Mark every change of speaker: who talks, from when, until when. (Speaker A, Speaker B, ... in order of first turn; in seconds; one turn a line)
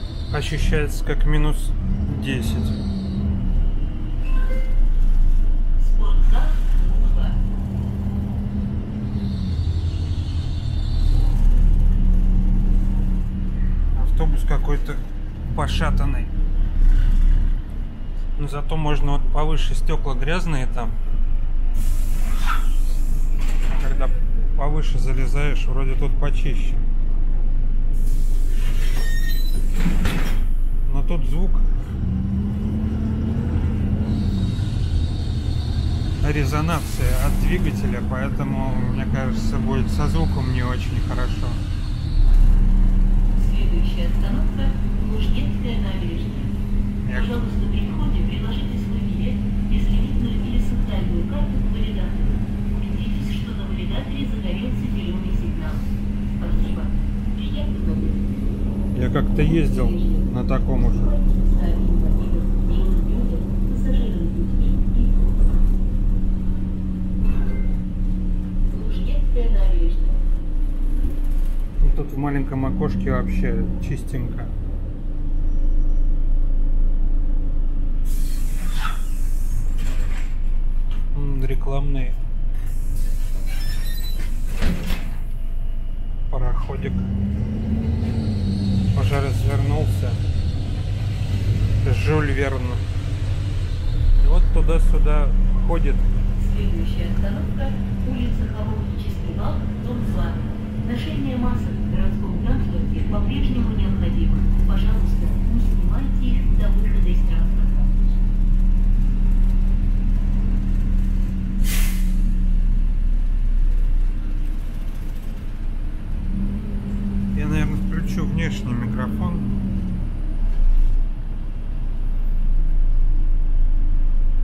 Speaker A: 0.3-2.8
Speaker B: 5.8-7.4
Speaker A: 13.9-15.0
Speaker A: 15.5-16.3
Speaker A: 18.4-21.0
Speaker A: 23.7-26.9
Speaker A: 30.9-31.7
Speaker A: 36.2-41.6
Speaker B: 43.4-46.6
Speaker A: 47.0-47.5
Speaker B: 47.1-58.3
Speaker A: 58.9-61.1
Speaker B: 59.4-65.3
Speaker B: 68.7-70.2
Speaker A: 71.8-74.5
Speaker A: 81.1-82.2
Speaker A: 86.3-87.1
Speaker A: 88.9-90.2
Speaker A: 91.8-92.8
Speaker A: 94.2-96.1
Speaker B: 96.4-108.0
Speaker A: 117.3-119.6